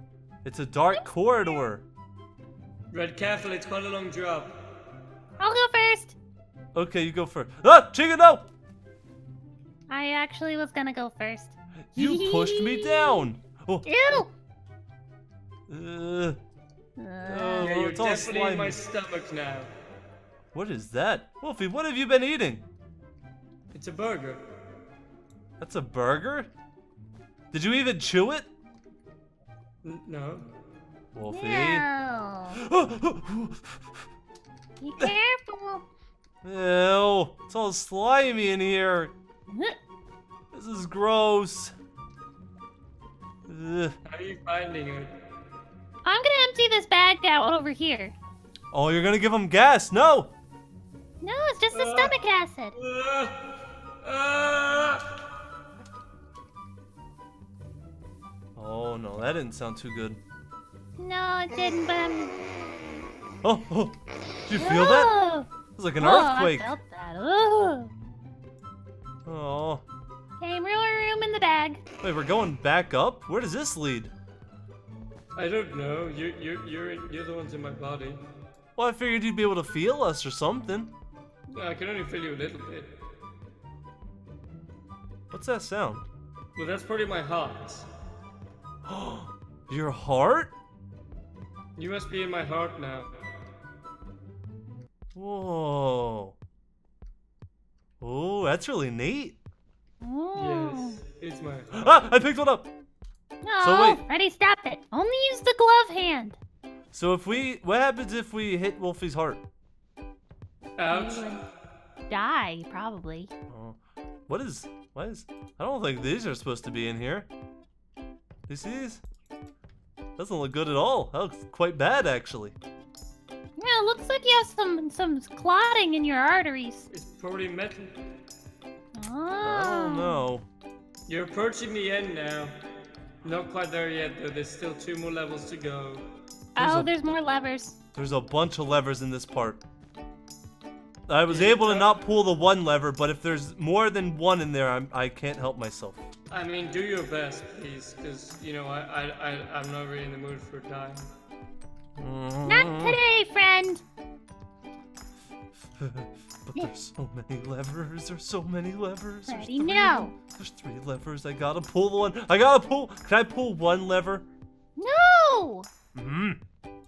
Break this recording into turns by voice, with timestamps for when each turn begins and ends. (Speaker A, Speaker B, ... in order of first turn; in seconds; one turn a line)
Speaker A: 0.4-1.8
Speaker B: 2.9-4.5
Speaker C: 5.4-6.1
Speaker A: 6.7-8.5
Speaker C: 9.9-13.3
Speaker A: 11.9-14.2
Speaker C: 13.8-14.3
Speaker A: 15.7-16.4
Speaker C: 17.0-17.7
Speaker A: 17.2-18.8
Speaker B: 17.6-19.7
Speaker A: 20.5-22.6
Speaker B: 23.7-24.4
Speaker A: 25.6-26.5
Speaker A: 27.5-28.5
Speaker B: 29.8-30.5
Speaker A: 31.1-31.9
Speaker C: 31.3-32.6
Speaker A: 32.5-34.0
Speaker C: 34.8-35.8
Speaker A: 36.4-39.1
Speaker C: 39.5-39.8
Speaker A: 40.5-41.7
Speaker A: 43.5-43.9
Speaker B: 44.0-45.1
Speaker C: 46.0-48.1
Speaker A: 48.7-50.3
Speaker C: 51.2-52.7
Speaker B: 51.7-52.2
Speaker B: 52.7-53.5
Speaker B: 54.0-55.1
Speaker A: 58.5-60.2
Speaker C: 61.0-62.4
Speaker A: 63.4-65.1
Speaker C: 64.5-65.5
Speaker A: 65.7-66.7
Speaker C: 66.0-67.9
Speaker A: 69.2-69.8
Speaker C: 70.4-71.8
Speaker A: 72.0-74.1
Speaker B: 75.3-78.2
Speaker A: 78.8-80.9
Speaker B: 81.5-82.9
Speaker A: 85.3-86.0
Speaker B: 86.5-87.9
Speaker A: 88.8-90.5
Speaker B: 91.8-93.2
Speaker A: 95.1-96.3
Speaker A: 98.0-99.4
Speaker C: 100.0-101.0
Speaker B: 100.3-102.0
Speaker A: 101.8-102.7
Speaker C: 103.4-106.4
Speaker A: 103.6-104.0
Speaker A: 106.9-109.4
Speaker B: 110.8-111.3
Speaker C: 110.9-111.4
Speaker C: 112.1-113.3
Speaker A: 113.5-117.3
Speaker A: 118.5-119.0
Speaker A: 120.2-122.5
Speaker C: 123.6-126.9
Speaker B: 126.9-128.0
Speaker C: 128.9-130.2
Speaker A: 129.4-130.5
Speaker B: 131.1-132.6
Speaker B: 133.2-136.1
Speaker C: 136.6-137.8
Speaker A: 136.6-136.9
Speaker A: 137.9-139.6
Speaker A: 141.1-146.0
Speaker B: 141.3-141.9
Speaker B: 146.3-151.1
Speaker A: 152.0-153.0
Speaker C: 152.4-153.8
Speaker A: 155.8-164.3
Speaker C: 159.3-160.1
Speaker C: 164.8-165.7
Speaker A: 165.9-166.4